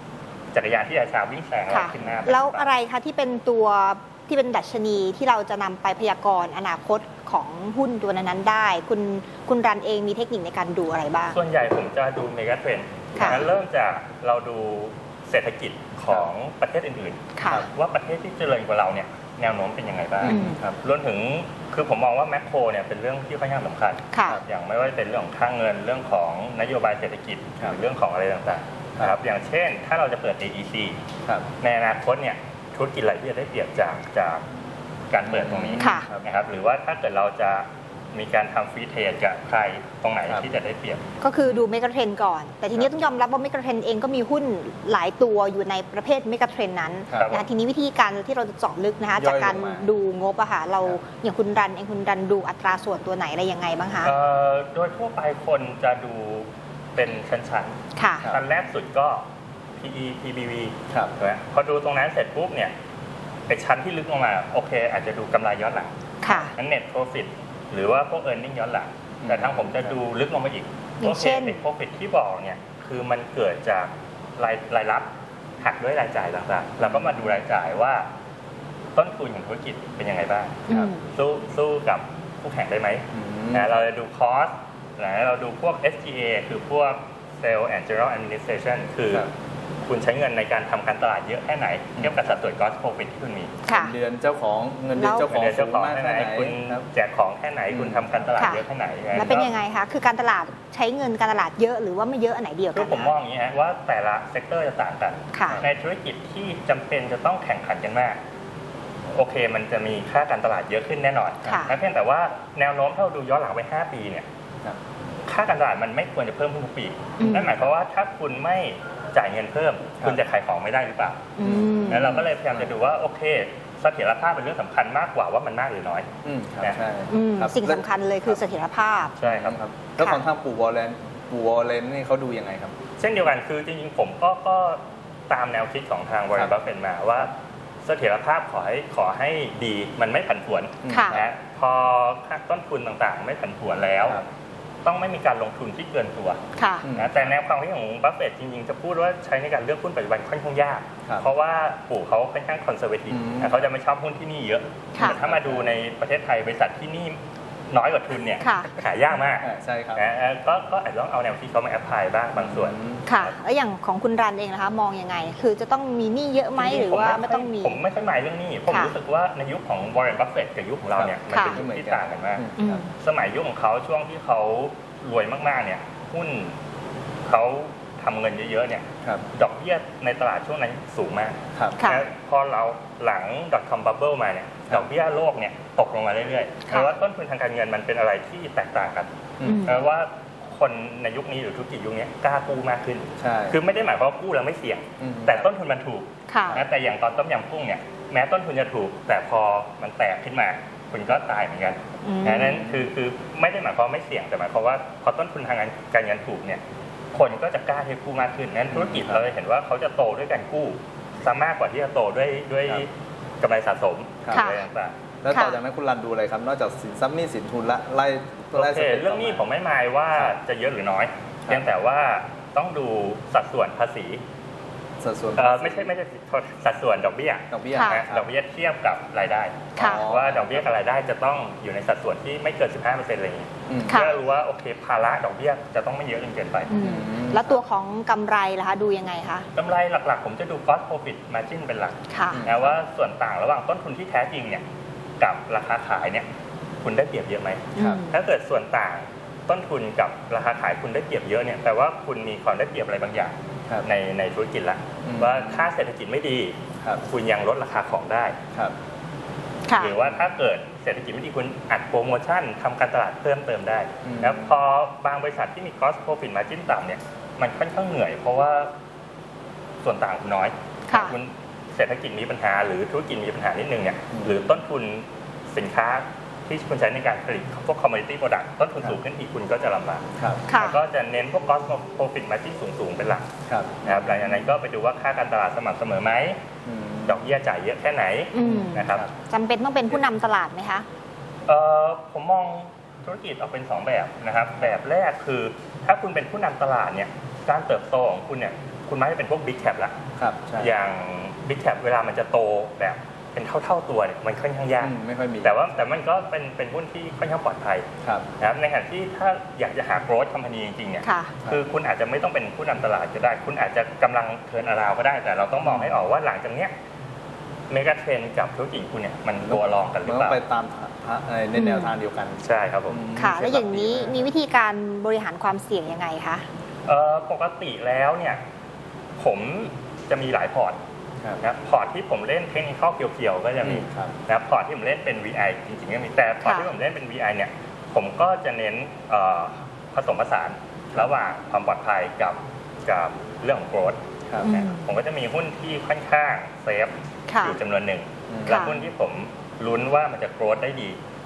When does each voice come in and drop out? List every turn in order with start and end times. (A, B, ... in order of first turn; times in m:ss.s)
0:00.5-0:02.6 A
0:01.7-0:11.4 B
0:11.3-0:31.0 A
0:13.2-0:13.4 B
0:13.2-0:13.4 C
0:17.4-0:17.7 B
0:20.2-0:20.8 C
0:20.2-0:20.6 B
0:24.1-0:24.4 B
0:31.6-0:34.4 A
0:35.1-0:41.0 A
0:35.3-0:36.2 C
0:35.8-0:36.1 B
0:41.2-0:54.1 B
0:47.1-0:47.3 C
0:47.1-0:47.4 A
0:49.2-0:49.9 C
0:54.0-0:59.2 A
0:58.0-0:58.3 B
0:59.8-1:02.7 A
1:03.5-1:15.1 A
1:06.2-1:06.5 B
1:09.2-1:09.9 C
1:11.0-1:11.6 B
1:15.6-1:18.0 A
1:16.8-1:17.3 C
1:18.9-1:29.3 A
1:20.7-1:21.0 B
1:23.1-1:23.7 C
1:29.8-1:33.6 A
1:33.6-1:33.9 B
1:33.7-1:36.8 C
1:35.0-1:35.3 B
1:35.2-1:39.5 A
1:37.7-1:38.3 C
1:38.4-1:38.6 B
1:39.2-1:43.1 B
1:42.7-1:48.2 A
1:45.3-1:45.6 B
1:49.1-1:54.2 A
1:51.4-1:51.7 B
1:55.3-2:01.3 A
1:57.2-1:57.5 B
2:01.4-2:02.2 B
2:01.4-2:02.7 C
2:01.9-2:06.1 A
2:06.2-2:08.3 C
2:07.1-2:09.2 B
2:09.2-2:09.6 A
2:09.2-2:12.8 C
2:13.0-2:17.3 A
2:17.8-2:24.2 A
2:20.8-2:21.3 C
2:20.9-2:21.2 B
2:24.8-2:26.4 A
2:26.6-2:26.8 B
2:26.8-2:27.1 C
2:26.9-2:37.2 A
2:33.1-2:33.6 C
2:35.0-2:35.7 C
2:37.7-2:43.2 A
2:38.4-2:38.7 B
2:39.4-2:40.0 C
2:42.4-2:43.0 C
2:43.0-2:47.8 B
2:46.6-2:56.5 A
2:50.9-2:52.8 C
2:51.3-2:51.6 B
2:52.6-2:52.9 B
2:57.2-3:09.1 A
3:01.5-3:01.8 C
3:01.8-3:02.0 B
3:09.4-3:09.7 C
3:09.4-3:09.8 B
3:09.6-3:26.6 A
3:13.2-3:13.6 C
3:15.0-3:15.4 C
3:16.3-3:16.6 B
3:22.0-3:22.7 B
3:27.1-3:34.9 A
3:28.7-3:29.2 C
3:34.2-3:34.5 C
3:34.3-3:34.6 B
3:35.2-3:39.4 C
3:38.5-3:44.2 A
3:45.0-3:45.9 C
3:45.4-3:56.7 A
3:47.5-3:48.3 C
3:47.7-3:48.0 B
3:49.8-3:50.0 B
3:49.8-3:50.7 C
3:53.7-3:54.1 C
3:53.8-3:54.1 B
3:56.7-3:59.4 B
3:56.8-3:57.6 C
3:59.5-4:04.6 A
4:02.1-4:02.5 B
4:02.3-4:02.7 C
4:05.2-4:06.2 A
4:06.8-4:18.4 A
4:07.7-4:08.1 B
4:15.0-4:15.6 C
4:19.7-4:19.9 B
4:19.8-4:28.7 A
4:24.0-4:24.5 C
4:29.8-4:43.3 A
4:30.9-4:31.1 B
4:34.1-4:34.4 C
4:40.2-4:40.4 C
4:40.5-4:40.8 B
4:43.4-4:44.4 C
4:43.8-4:46.4 A
4:46.6-4:47.2 C
4:47.1-4:49.0 A
4:48.3-4:50.8 B
4:48.4-4:49.1 C
4:51.5-5:00.0 A
5:00.2-5:00.8 C
5:00.6-5:07.9 A
5:04.8-5:05.6 C
5:08.4-5:16.7 A
5:11.0-5:11.3 B
5:15.6-5:16.0 C
5:17.7-5:20.4 A
5:19.5-5:24.3 C
5:21.5-5:21.9 B
5:22.4-5:23.0 A
5:23.2-5:26.4 B
5:26.8-5:28.4 A
5:29.2-5:30.8 A
5:31.4-5:51.0 A
5:33.6-5:34.1 C
5:44.4-5:44.8 B
5:47.3-5:47.6 B
5:48.3-5:48.8 C
5:48.5-5:48.7 B